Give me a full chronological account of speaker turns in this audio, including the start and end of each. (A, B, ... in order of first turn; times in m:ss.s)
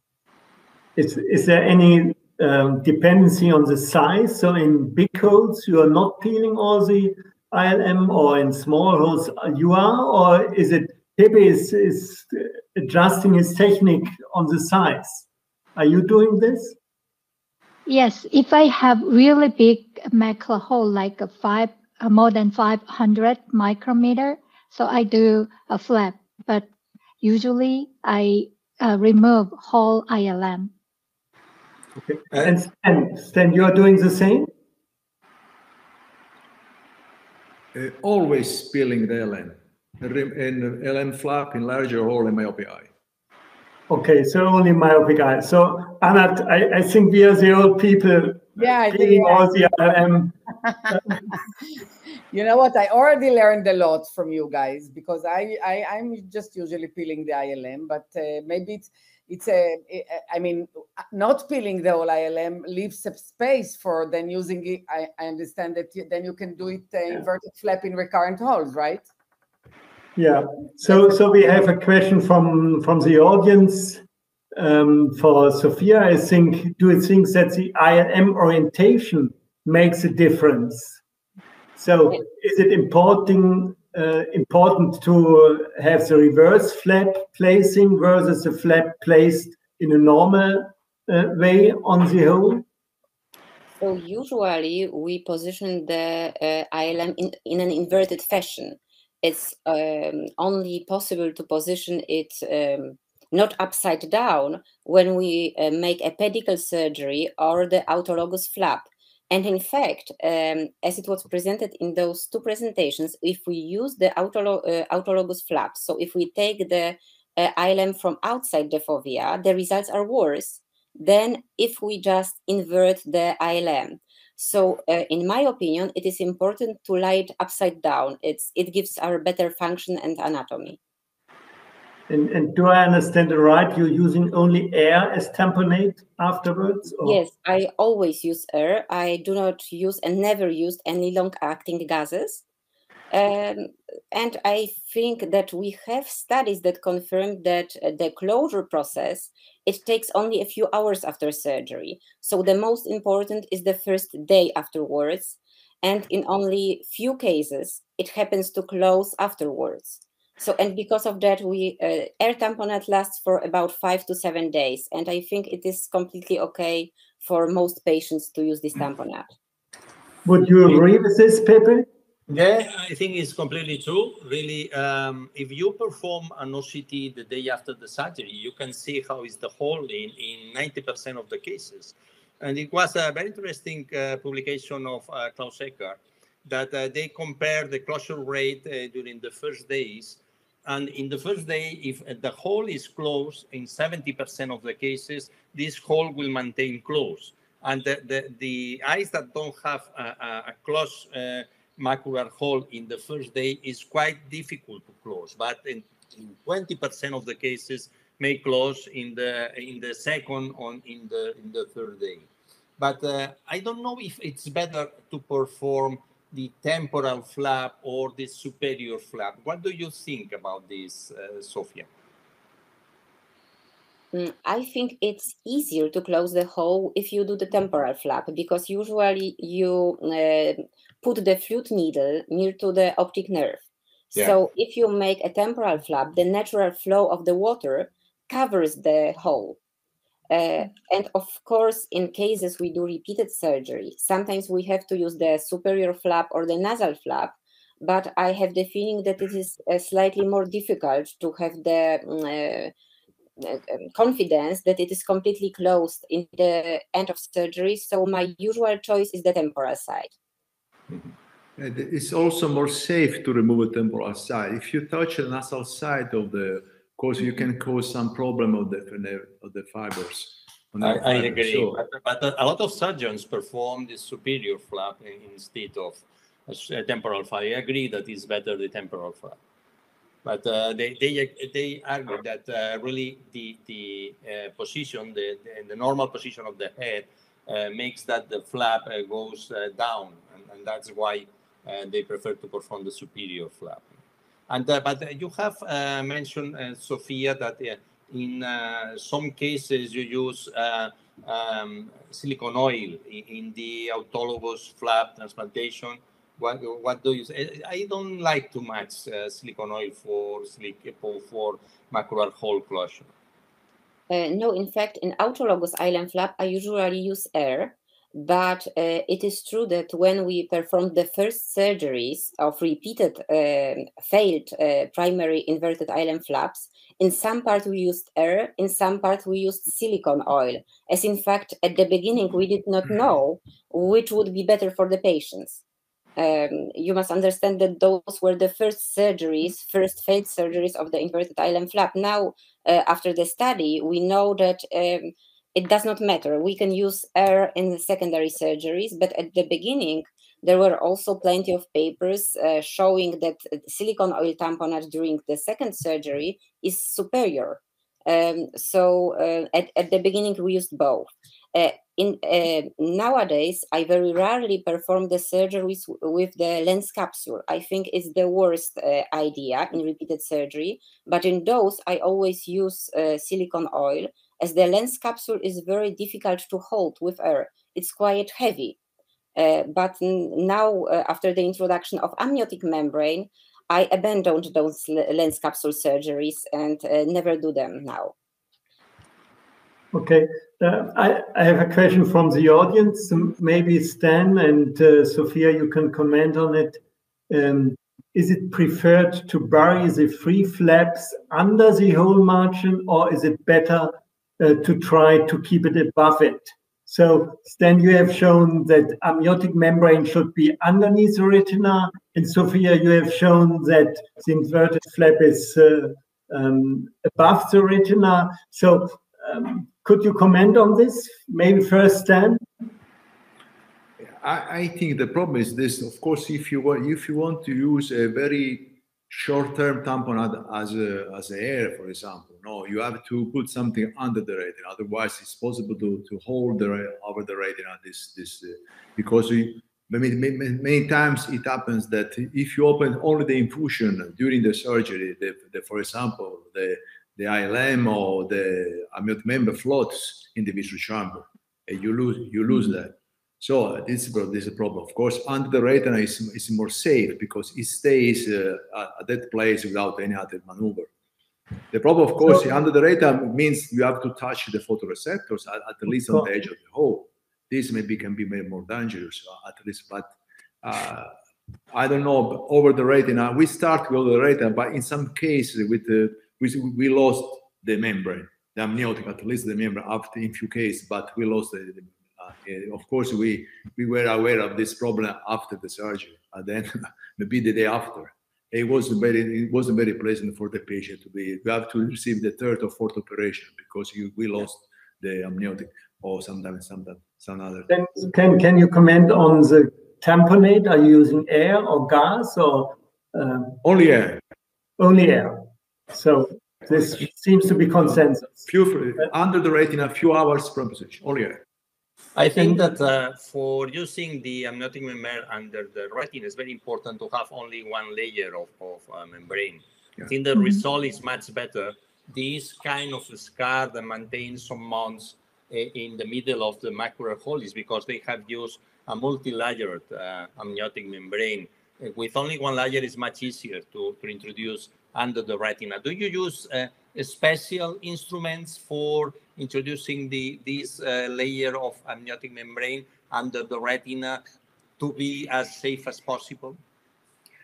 0:01.0-0:16.8 A
0:17.8-0:26.7 B
0:27.2-0:30.7 B
0:32.0-0:34.5 A
0:37.7-0:42.9 C
0:43.9-0:50.3 A
0:48.6-0:49.7 D
0:50.6-0:51.4 D
0:50.9-0:51.2 A
0:52.3-1:09.0 D
1:10.2-1:14.0 A
1:10.8-1:11.4 D
1:14.6-1:21.0 A
1:21.8-1:32.6 A
1:33.8-2:10.8 E
2:12.1-2:17.2 A
2:17.0-2:22.4 E
2:23.1-2:49.3 E
2:50.2-2:51.8 A
2:52.3-3:32.3 F
3:32.8-3:41.9 F
3:44.1-3:53.6 E
3:54.1-3:59.6 E
4:00.3-4:12.7 E
4:13.4-4:20.1 E
4:21.6-4:31.8 C
4:30.8-4:39.4 F
4:40.2-4:53.9 F
4:54.5-5:13.1 F
5:14.1-5:35.6 E
5:36.2-6:18.8 E
6:19.4-6:28.1 E
6:29.9-7:02.4 A
7:04.1-7:40.9 C
7:41.7-7:51.1 C
7:45.9-7:46.3 A
7:51.7-8:17.7 C
8:17.7-8:23.6 A
8:23.6-8:24.2 C
8:24.8-8:25.4 A
8:25.9-8:28.4 A
8:28.4-8:31.4 C
8:32.2-9:04.2 F
9:04.8-9:06.6 F